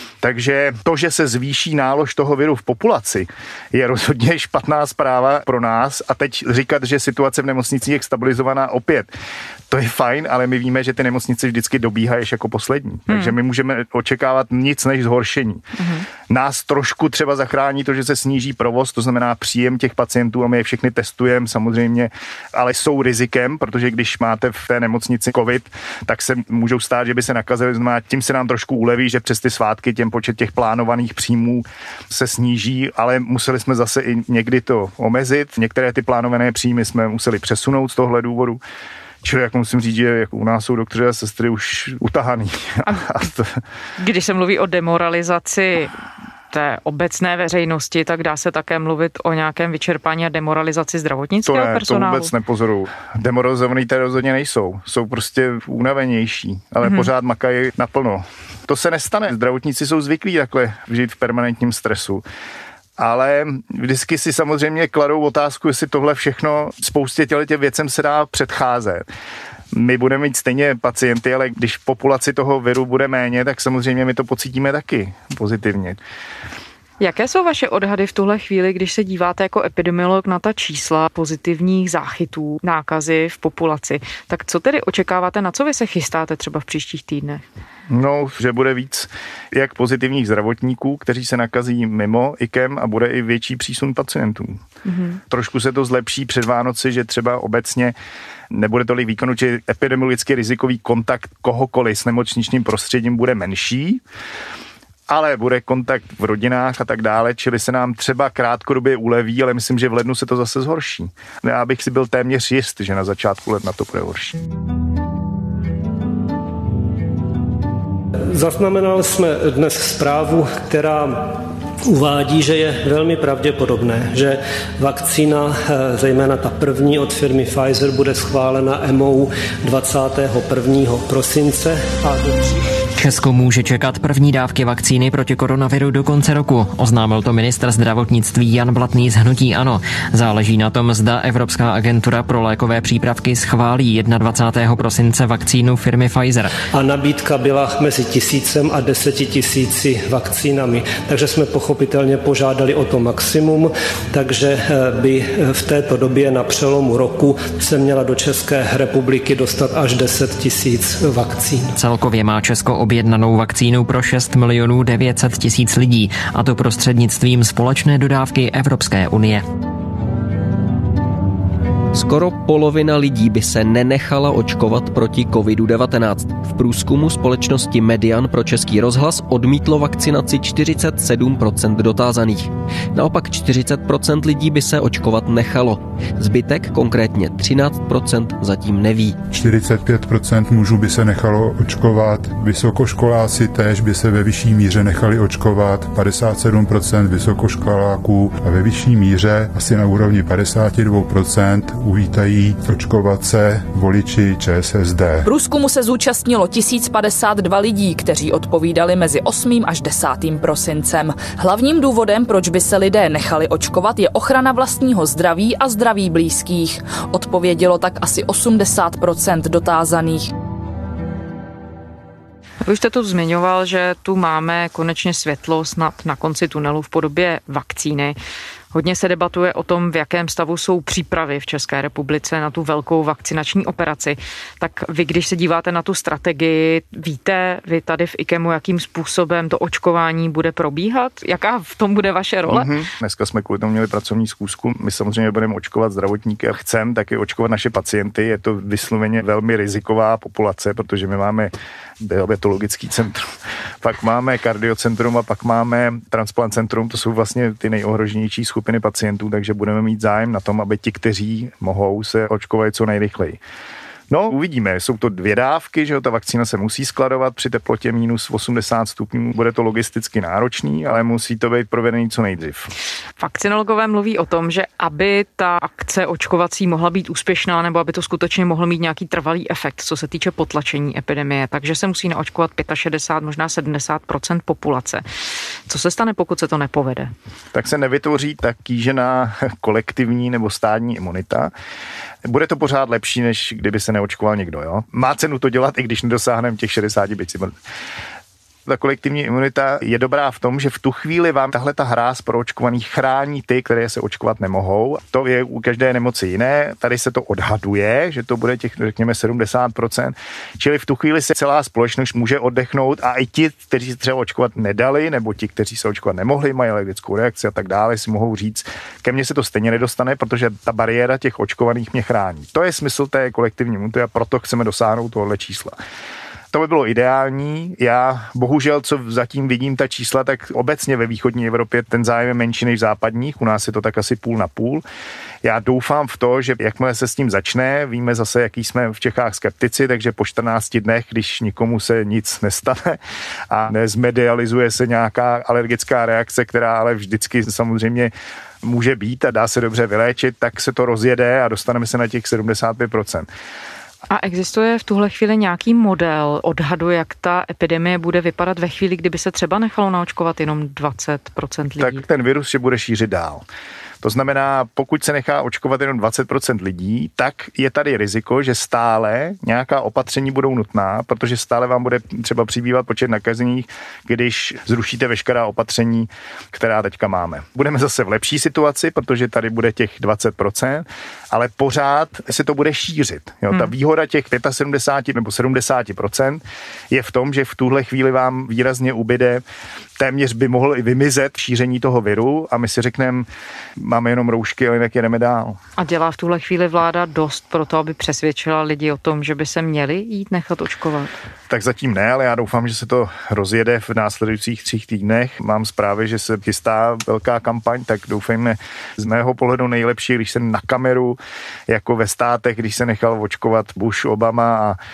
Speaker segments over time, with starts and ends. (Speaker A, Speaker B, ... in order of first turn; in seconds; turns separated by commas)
Speaker A: 0.2-9.1, Speaker A: 9.7-15.6, Speaker B: 13.1-13.3, Speaker B: 15.8-16.0, Speaker A: 16.3-38.6, Speaker A: 39.2-43.6, Speaker B: 44.0-46.0, Speaker B: 46.5-52.3, Speaker A: 51.4-62.2, Speaker B: 56.8-57.1, Speaker A: 63.0-69.0, Speaker A: 69.7-76.0, Speaker B: 77.0-87.4, Speaker A: 87.9-94.6, Speaker B: 94.8-95.2, Speaker A: 95.3-97.9, Speaker A: 98.5-104.0, Speaker A: 105.1-114.4, Speaker C: 118.3-132.5, Speaker D: 132.9-146.5, Speaker C: 146.7-161.7, Speaker D: 161.8-169.4, Speaker E: 171.9-189.2, Speaker F: 189.3-205.3, Speaker G: 205.2-220.3, Speaker B: 222.6-228.2, Speaker B: 228.7-242.7, Speaker A: 242.5-263.4, Speaker A: 264.1-272.7, Speaker B: 273.2-285.0, Speaker B: 285.7-287.1, Speaker A: 287.5-291.5, Speaker A: 292.2-297.6, Speaker A: 298.6-325.8, Speaker A: 326.5-334.8, Speaker A: 335.4-353.3, Speaker B: 354.1-362.0, Speaker A: 361.8-363.4, Speaker A: 364.0-389.4, Speaker A: 390.0-395.6, Speaker B: 395.8-401.1, Speaker A: 401.5-414.8